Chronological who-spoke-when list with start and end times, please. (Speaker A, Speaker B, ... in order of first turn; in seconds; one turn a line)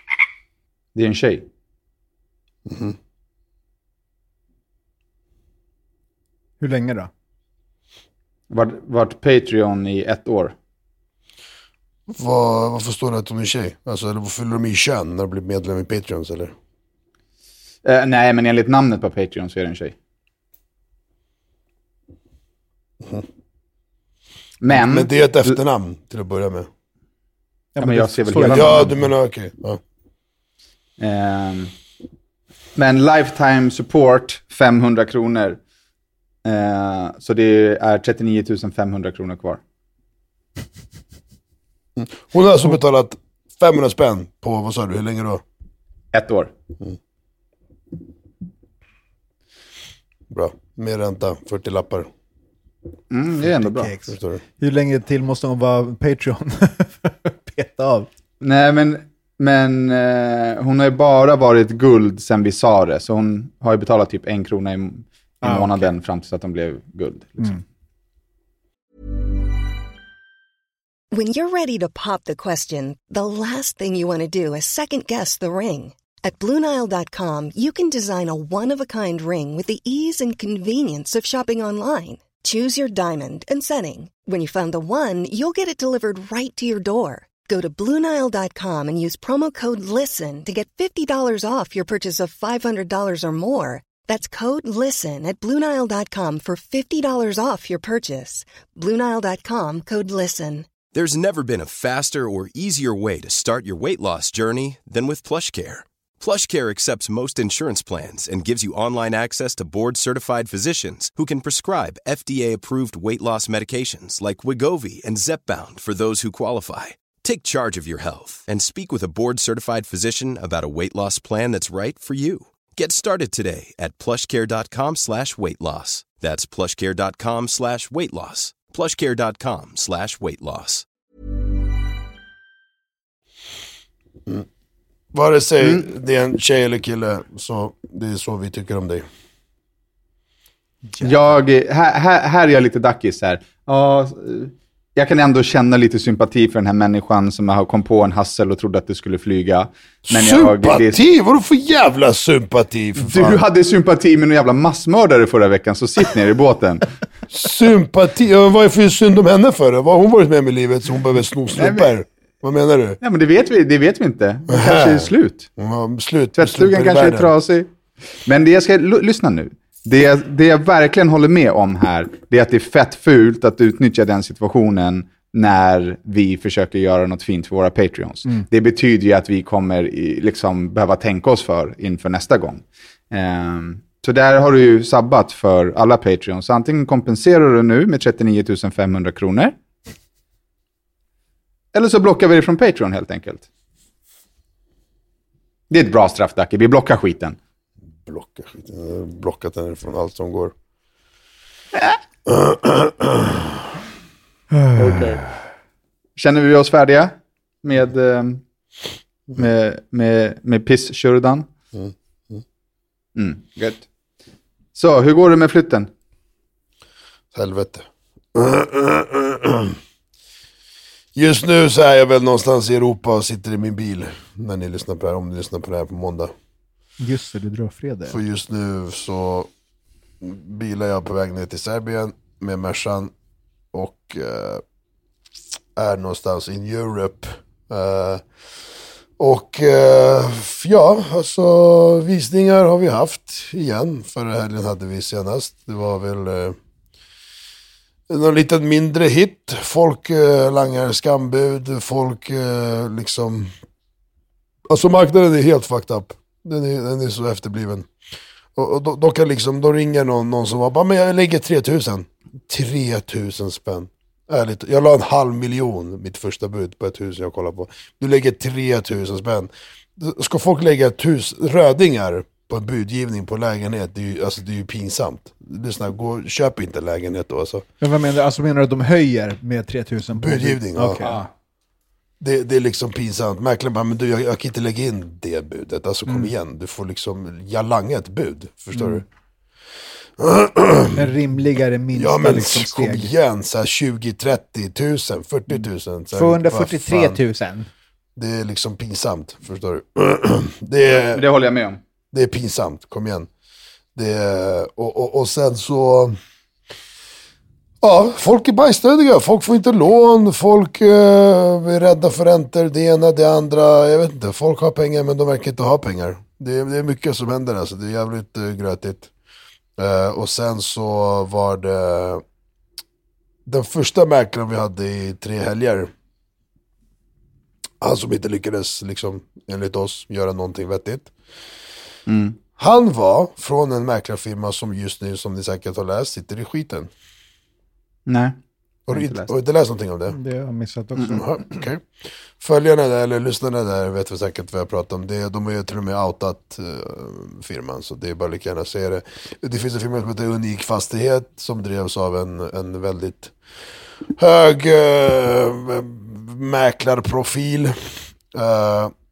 Speaker A: 0.9-1.5
Speaker B: 2.6-3.0
Speaker C: 6.6-7.1
Speaker A: 8.5-10.5
Speaker B: 12.1-16.5
Speaker A: 17.8-19.9
Speaker A: 24.6-25.6
Speaker B: 24.7-26.7
Speaker C: 27.8-29.1
Speaker A: 27.8-28.9
Speaker B: 28.4-29.8
Speaker A: 31.0-31.7
Speaker A: 32.8-35.6
Speaker A: 36.4-39.6
Speaker B: 42.0-45.4
Speaker A: 46.1-46.5
Speaker B: 50.3-52.1
Speaker A: 53.1-53.9
Speaker C: 53.4-58.1
Speaker B: 54.1-54.4
Speaker A: 58.4-67.6
Speaker C: 65.4-65.9
Speaker D: 71.1-100.7
Speaker E: 100.9-130.8
Speaker B: 135.1-139.0
Speaker A: 141.0-151.0
Speaker B: 150.1-153.4
Speaker A: 153.0-156.9
Speaker B: 157.3-163.0
Speaker A: 161.6-161.9
Speaker A: 163.0-165.5
Speaker B: 164.5-167.3
Speaker A: 166.4-167.7
Speaker A: 168.2-189.5
Speaker A: 191.7-193.5
Speaker A: 195.7-197.4
Speaker B: 198.0-200.5
Speaker B: 202.2-203.6
Speaker A: 204.7-205.3
Speaker A: 206.2-208.4
Speaker A: 209.3-211.5
Speaker B: 211.7-212.4
Speaker A: 213.2-213.8
Speaker A: 214.8-215.9
Speaker B: 217.3-219.8
Speaker B: 221.1-226.3
Speaker C: 227.0-228.2
Speaker B: 228.1-229.5
Speaker B: 230.2-233.1
Speaker B: 233.7-234.6
Speaker B: 235.8-238.2
Speaker B: 239.2-246.6
Speaker B: 248.1-253.5
Speaker B: 254.7-257.9
Speaker B: 258.5-277.6
Speaker C: 277.8-281.3
Speaker B: 280.1-281.0
Speaker B: 282.2-289.0
Speaker B: 290.2-291.1
Speaker C: 290.9-293.1
Speaker B: 291.9-297.2
Speaker C: 296.1-297.7
Speaker B: 298.1-301.2
Speaker A: 301.0-301.8
Speaker B: 302.1-303.3
Speaker B: 303.9-306.1
Speaker B: 307.8-319.1
Speaker B: 319.8-322.2
Speaker B: 323.5-325.9
Speaker B: 327.8-331.1
Speaker A: 332.1-332.4
Speaker B: 332.6-336.9
Speaker A: 338.1-338.4
Speaker B: 338.9-340.2
Speaker A: 338.9-339.3
Speaker C: 340.1-341.2
Speaker B: 341.1-353.3
Speaker B: 354.1-358.9